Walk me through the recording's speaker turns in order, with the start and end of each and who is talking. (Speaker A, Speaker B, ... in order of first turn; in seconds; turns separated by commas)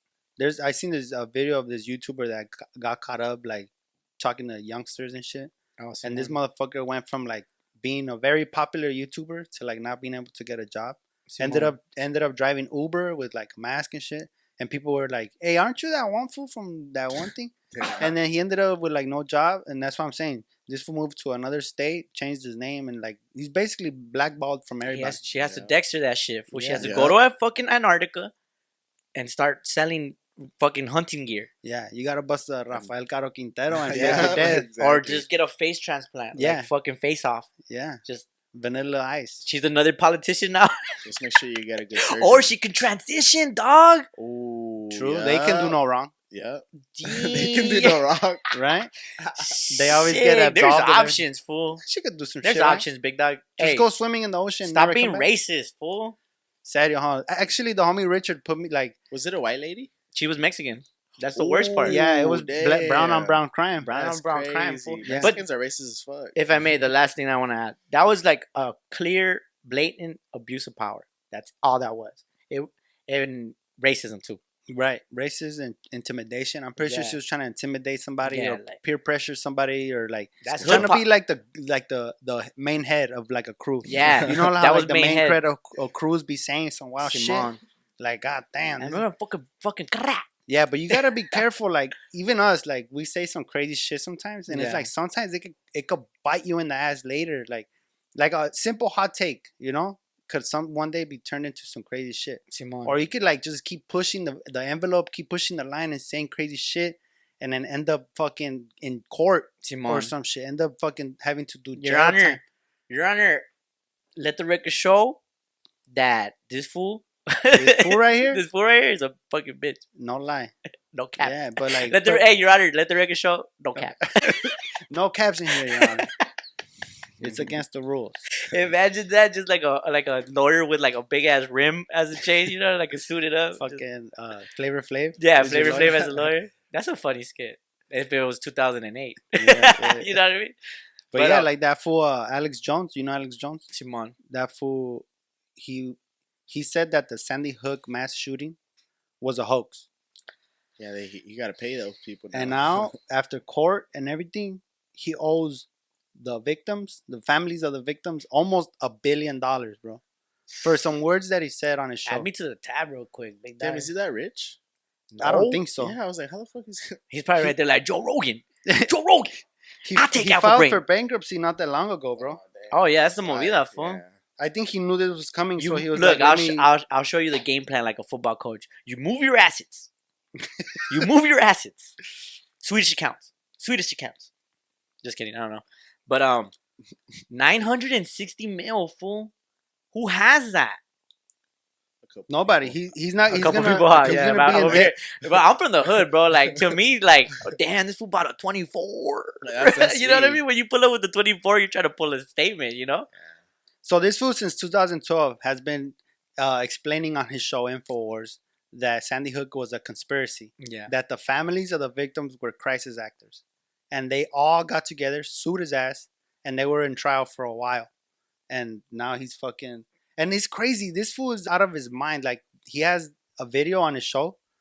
Speaker A: 0.4-25.2, Speaker B: 5.8-6.3, Speaker B: 11.3-11.7, Speaker C: 17.8-18.1, Speaker B: 24.9-28.3, Speaker C: 25.4-25.7, Speaker A: 26.5-26.9, Speaker C: 26.8-27.2, Speaker B: 29.1-31.5, Speaker A: 31.6-34.7, Speaker C: 33.8-35.3, Speaker B: 34.0-37.5, Speaker A: 36.3-36.7, Speaker A: 37.6-38.0, Speaker A: 38.5-39.5, Speaker B: 39.4-40.8, Speaker C: 41.0-42.5, Speaker B: 42.1-44.1, Speaker C: 44.2-45.8, Speaker A: 44.9-46.1, Speaker C: 46.3-48.5, Speaker B: 47.0-48.0, Speaker A: 48.5-48.9, Speaker C: 49.2-50.0, Speaker B: 49.3-51.8, Speaker A: 49.7-51.2, Speaker A: 51.8-52.9, Speaker B: 52.4-53.9, Speaker A: 53.6-55.3, Speaker B: 54.6-56.2, Speaker A: 56.6-59.0, Speaker C: 59.1-59.9, Speaker B: 60.1-62.0, Speaker C: 61.3-63.4, Speaker A: 61.9-64.0, Speaker B: 63.8-65.4, Speaker C: 63.9-66.8, Speaker A: 65.0-65.3, Speaker B: 66.3-74.4, Speaker A: 74.7-89.0, Speaker B: 76.8-77.2, Speaker B: 78.2-78.8, Speaker B: 80.4-81.0, Speaker C: 80.6-80.9, Speaker B: 83.8-85.4, Speaker B: 87.0-87.6, Speaker B: 88.8-90.3, Speaker A: 90.5-112.4, Speaker B: 90.9-91.3, Speaker B: 94.5-94.9, Speaker B: 102.5-103.0, Speaker B: 109.6-110.1, Speaker B: 111.8-113.5, Speaker B: 114.2-115.2, Speaker B: 115.9-119.8, Speaker A: 117.5-118.4, Speaker A: 120.0-120.5, Speaker B: 120.9-124.5, Speaker A: 121.2-122.2, Speaker A: 123.8-126.1, Speaker A: 127.2-128.2, Speaker B: 128.4-133.8, Speaker A: 133.6-136.3, Speaker B: 135.2-140.6, Speaker A: 139.4-140.2, Speaker A: 141.1-143.7, Speaker B: 141.1-141.5, Speaker B: 143.7-144.2, Speaker A: 144.3-145.1, Speaker A: 145.6-148.6, Speaker A: 149.2-149.9, Speaker C: 150.8-152.9, Speaker A: 152.3-160.0, Speaker A: 160.6-162.3, Speaker B: 162.1-163.9, Speaker C: 163.6-164.6, Speaker B: 165.1-165.6, Speaker A: 165.2-166.0, Speaker C: 165.8-167.0, Speaker B: 167.1-169.4, Speaker A: 168.7-168.9, Speaker A: 169.8-172.4, Speaker B: 169.9-170.8, Speaker C: 172.2-174.1, Speaker B: 172.7-174.0, Speaker A: 174.4-176.7, Speaker B: 175.6-179.9, Speaker A: 180.6-180.9, Speaker B: 180.9-182.0, Speaker B: 182.6-184.3, Speaker B: 185.0-186.5, Speaker B: 187.3-189.3, Speaker B: 189.9-190.8, Speaker C: 192.0-195.4, Speaker A: 192.3-194.9, Speaker B: 193.3-203.1, Speaker C: 199.4-200.4, Speaker A: 203.8-217.9, Speaker B: 210.6-210.9, Speaker A: 218.5-224.4